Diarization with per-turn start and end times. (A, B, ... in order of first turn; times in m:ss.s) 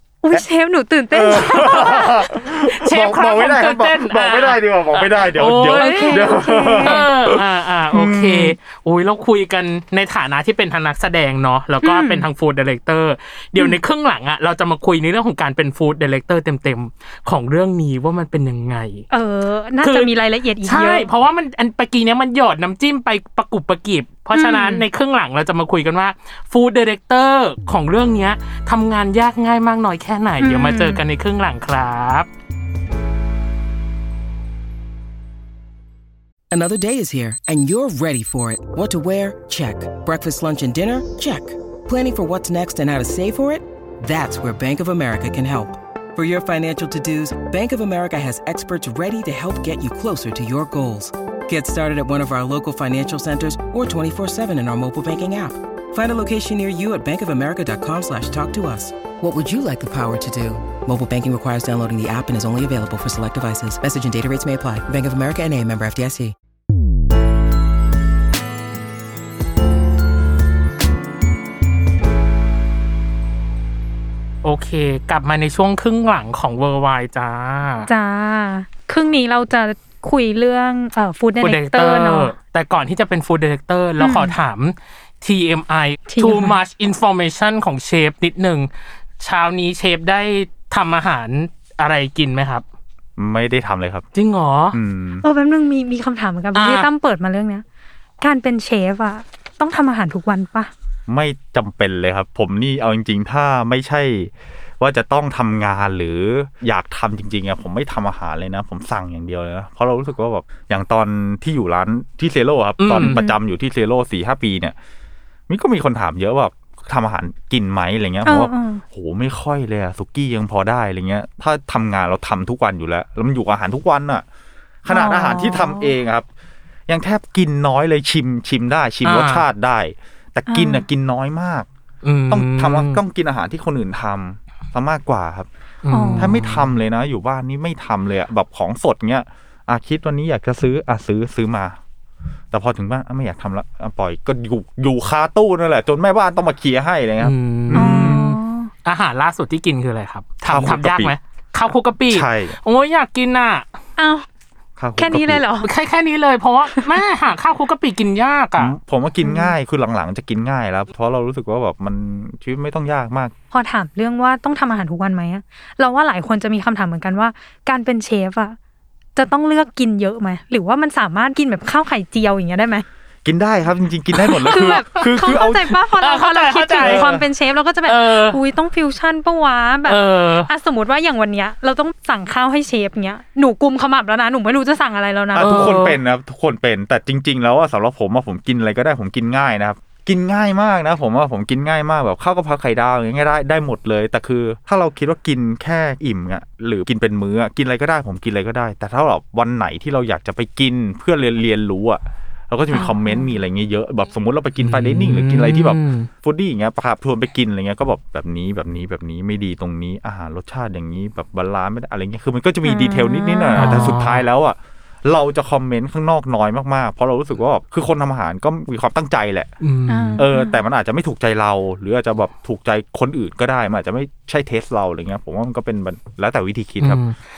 0:00.2-0:02.3 A
0:01.1-0:08.6 B
0:02.6-0:19.1 C
0:05.8-0:07.1 A
0:11.8-0:12.3 A
0:19.1-0:21.1 A
0:19.8-0:20.1 C
0:20.6-0:32.3 C
0:24.3-0:24.9 A
0:30.4-0:31.0 A
0:36.5-1:06.3 D
1:14.4-1:17.9 C
1:17.9-1:22.3 A
1:21.4-1:28.7 C
1:24.0-1:24.4 A
1:26.1-1:26.6 A
1:29.2-1:32.6 C
1:33.2-1:34.1 B
1:34.1-1:34.8 C
1:34.7-1:35.2 B
1:35.2-1:37.6 A
1:36.6-1:36.9 C
1:38.2-1:40.7 A
1:41.1-1:54.8 B
1:52.8-1:53.2 C
1:53.0-1:53.4 A
1:55.5-2:04.2 B
1:58.2-1:58.8 A
2:04.8-2:06.3 B
2:04.9-2:05.9 A
2:06.9-2:11.7 B
2:09.0-2:09.4 C
2:10.5-2:10.8 A
2:12.0-2:13.0 C
2:12.3-2:15.5 B
2:15.8-2:16.7 C
2:15.9-2:16.4 A
2:16.2-2:21.8 B
2:22.5-2:28.2 B
2:27.2-2:33.7 C
2:27.7-2:28.7 A
2:30.4-2:31.1 B
2:32.1-2:32.6 B
2:34.0-2:34.3 A
2:34.8-2:35.4 B
2:35.0-2:35.7 A
2:35.6-2:38.7 C
2:38.6-2:43.3 B
2:39.2-2:39.5 A
2:43.5-2:48.6 A
2:49.2-2:52.8 A
2:53.2-2:55.7 B
2:54.2-2:57.1 C
2:54.5-3:05.8 A
2:56.8-2:57.2 B
2:57.9-2:58.4 C
2:59.9-3:00.5 C
3:05.3-3:39.5 B
3:05.4-3:06.0 C
3:22.7-3:23.3 A
3:24.6-3:26.1 C
3:32.6-3:33.9 A
3:33.6-3:34.2 C
3:39.6-3:40.2 C
3:39.9-3:40.6 A
3:40.2-3:47.0 B
3:46.8-3:47.2 C